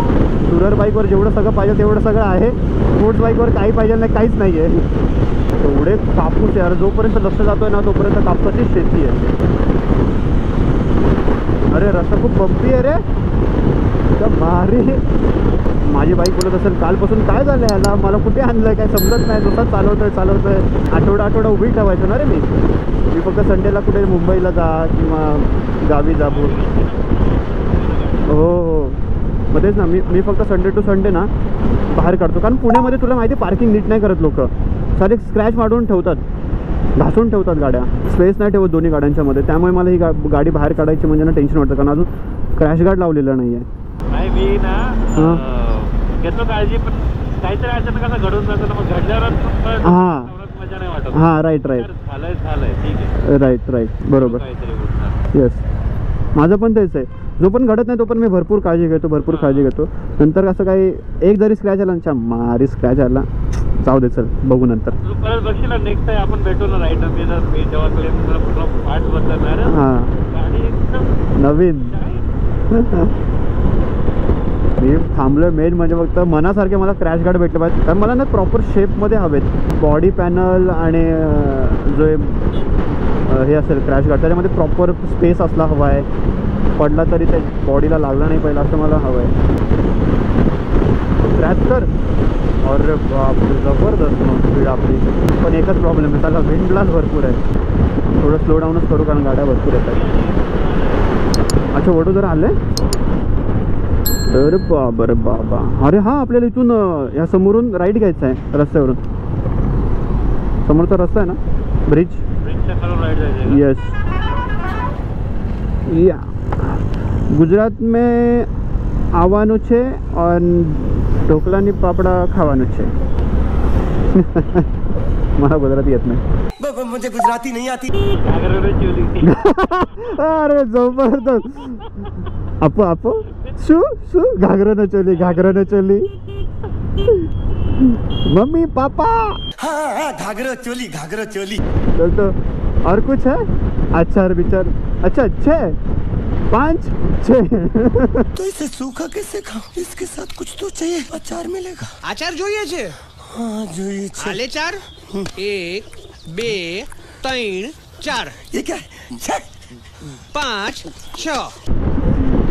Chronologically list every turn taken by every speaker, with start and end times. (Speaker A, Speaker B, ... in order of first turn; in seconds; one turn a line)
Speaker A: 0.5-4.9
Speaker A: 5.6-9.3
Speaker A: 11.7-13.0
Speaker A: 14.2-15.0
Speaker A: 15.8-22.5
Speaker A: 23.1-26.6
Speaker B: 26.1-28.4
Speaker A: 28.3-31.3
Speaker A: 31.9-36.2
Speaker A: 37.0-43.7
Speaker B: 44.1-53.2
Speaker A: 45.2-45.4
Speaker A: 49.8-50.3
Speaker A: 51.1-51.9
Speaker A: 53.2-54.4
Speaker B: 54.1-55.2
Speaker A: 55.3-55.6
Speaker A: 56.4-63.3
Speaker B: 59.3-59.7
Speaker A: 63.8-65.0
Speaker B: 65.0-71.1
Speaker A: 69.6-70.2
Speaker A: 71.4-72.0
Speaker B: 71.8-72.2
Speaker A: 72.7-73.2
Speaker A: 74.8-82.5
Speaker A: 83.3-86.1
Speaker A: 86.8-89.3
Speaker A: 91.2-91.9
Speaker A: 92.6-97.4
Speaker A: 98.1-100.0
Speaker B: 99.7-101.1
Speaker A: 101.7-102.6
Speaker A: 104.3-109.0
Speaker A: 110.6-112.2
Speaker B: 112.4-113.7
Speaker A: 113.5-114.0
Speaker A: 115.9-118.5
Speaker A: 119.1-122.9
Speaker A: 124.1-124.7
Speaker A: 125.4-126.2
Speaker C: 126.6-127.9
Speaker B: 127.9-129.4
Speaker A: 129.2-131.9
Speaker A: 132.6-136.1
Speaker B: 135.1-135.6
Speaker A: 137.0-139.4
Speaker C: 139.6-141.6
Speaker A: 142.0-145.8
Speaker A: 146.5-148.3
Speaker C: 148.4-152.0
Speaker D: 152.0-153.0
Speaker C: 153.2-154.4
Speaker D: 154.2-154.8
Speaker C: 155.0-155.3
Speaker D: 155.4-158.4
Speaker C: 158.4-159.6
Speaker D: 160.3-161.6